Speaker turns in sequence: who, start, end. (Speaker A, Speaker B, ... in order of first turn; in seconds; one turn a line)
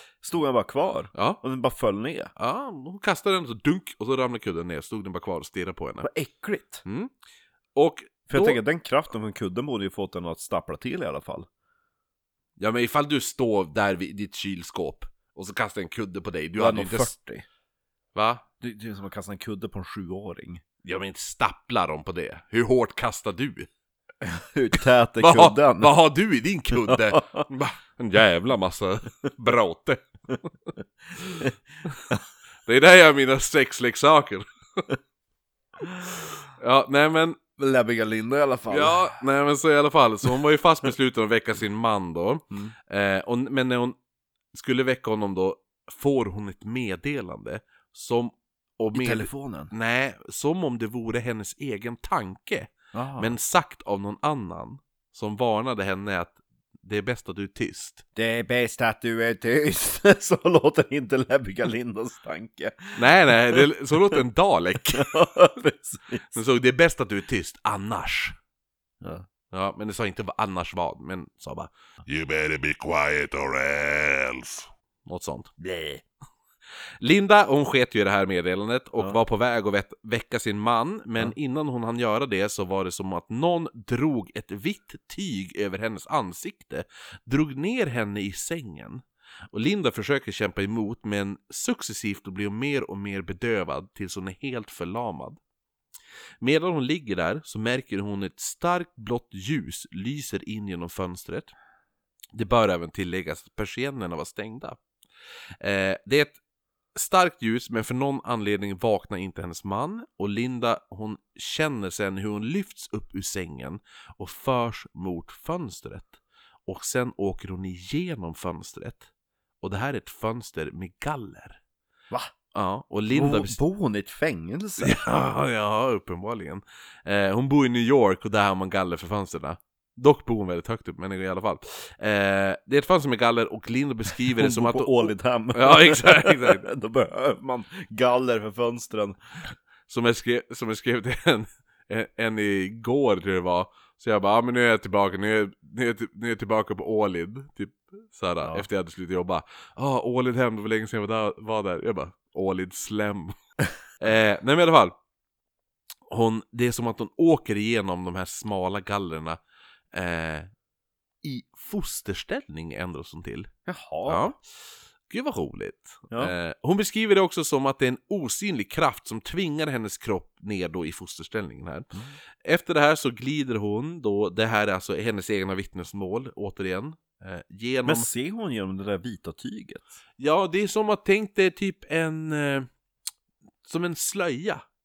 Speaker A: 0.2-2.3
Speaker B: 1.1-1.4
Speaker B: 2.4-6.1
Speaker A: 6.0-6.8
Speaker B: 6.8-7.1
Speaker B: 7.7-8.6
Speaker A: 8.3-11.5
Speaker B: 12.6-17.1
Speaker A: 16.6-17.4
Speaker B: 18.1-18.4
Speaker A: 18.6-20.6
Speaker B: 20.8-23.7
Speaker A: 24.2-25.9
Speaker B: 25.2-30.0
Speaker A: 26.7-27.4
Speaker B: 31.2-31.5
Speaker B: 32.6-34.5
Speaker B: 36.6-37.4
Speaker A: 37.6-39.2
Speaker B: 38.7-44.0
Speaker B: 44.5-58.0
Speaker A: 48.9-49.7
Speaker A: 52.9-53.3
Speaker A: 58.1-64.2
Speaker B: 63.0-65.1
Speaker A: 64.9-66.4
Speaker B: 66.3-68.4
Speaker A: 69.0-69.3
Speaker B: 69.5-71.7
Speaker C: 72.0-74.7
Speaker B: 75.0-75.5
Speaker A: 75.6-76.0
Speaker B: 77.0-95.4
Speaker B: 96.4-101.5
Speaker B: 102.3-104.8
Speaker B: 105.6-106.4
Speaker B: 106.9-119.1
Speaker B: 119.6-121.6
Speaker B: 122.5-123.6
Speaker A: 123.1-125.0
Speaker B: 124.8-136.7
Speaker A: 134.2-139.2
Speaker B: 139.9-153.3
Speaker B: 154.0-154.9
Speaker B: 156.1-159.4
Speaker B: 159.9-160.5
Speaker B: 161.2-163.5
Speaker A: 163.7-164.3
Speaker B: 164.1-164.4
Speaker B: 165.1-171.9
Speaker B: 172.4-178.1
Speaker A: 177.8-180.0
Speaker B: 180.2-182.7
Speaker B: 183.6-184.6